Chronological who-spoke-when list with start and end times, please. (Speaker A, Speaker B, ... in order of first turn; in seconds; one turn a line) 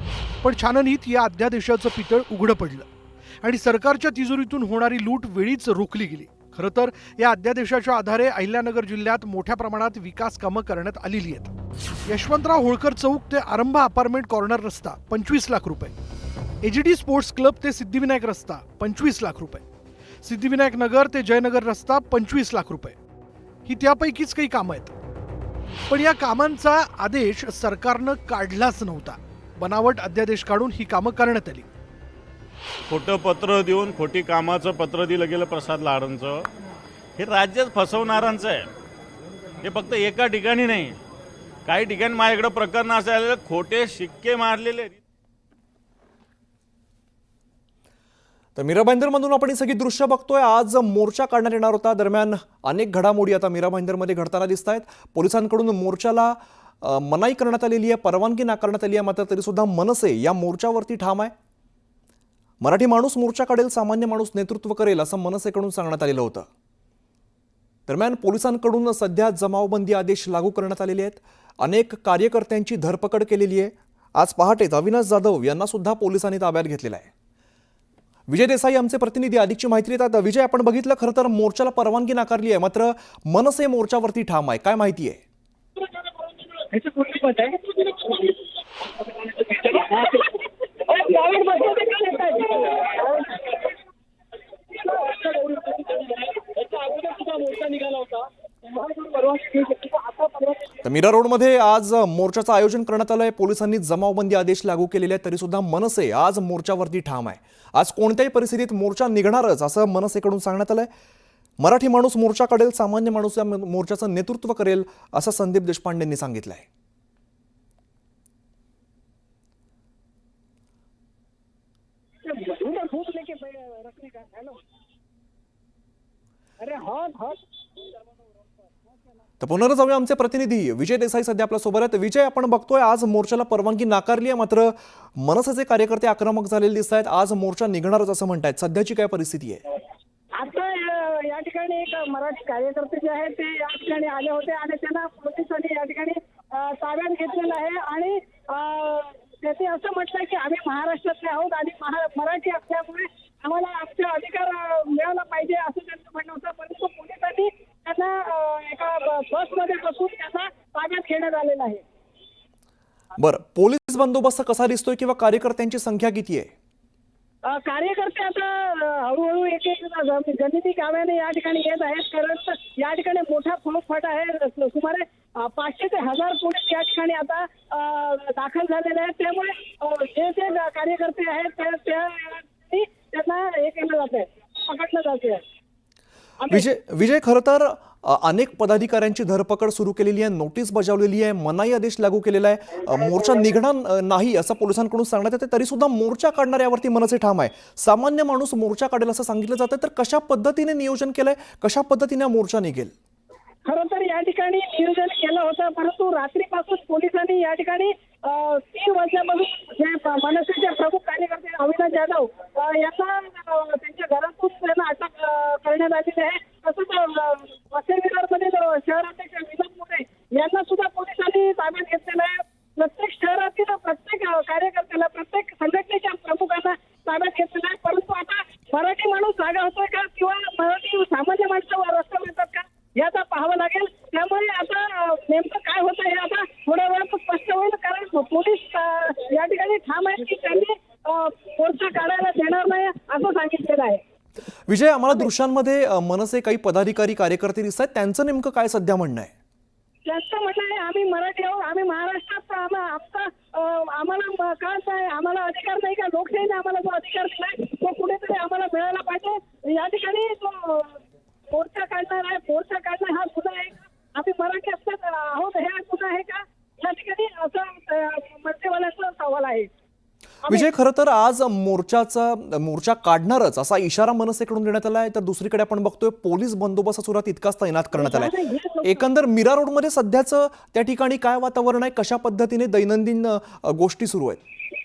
Speaker A: 0.4-2.9
Speaker A: 3.4-11.5
Speaker A: 12.1-15.9
Speaker A: 16.6-19.6
Speaker A: 20.2-22.9
Speaker A: 23.6-24.9
Speaker A: 25.9-31.7
Speaker B: 32.9-36.5
Speaker B: 37.2-38.7
Speaker B: 39.6-41.0
Speaker B: 41.6-45.0
Speaker C: 48.5-61.3
Speaker C: 62.6-66.5
Speaker C: 67.9-77.1
Speaker C: 78.3-85.2
Speaker D: 86.5-88.3
Speaker D: 89.1-93.7
Speaker D: 94.7-100.8
Speaker C: 100.8-110.9
Speaker C: 111.6-116.7
Speaker D: 122.2-124.6
Speaker D: 126.6-127.8
Speaker C: 129.4-139.6
Speaker D: 140.3-161.8
Speaker C: 163.2-166.5
Speaker D: 167.5-185.4
Speaker C: 186.5-202.9
Speaker D: 203.7-244.0
Speaker C: 244.7-249.3
Speaker D: 250.0-261.0
Speaker D: 261.5-269.7
Speaker C: 270.5-284.4
Speaker D: 277.9-279.0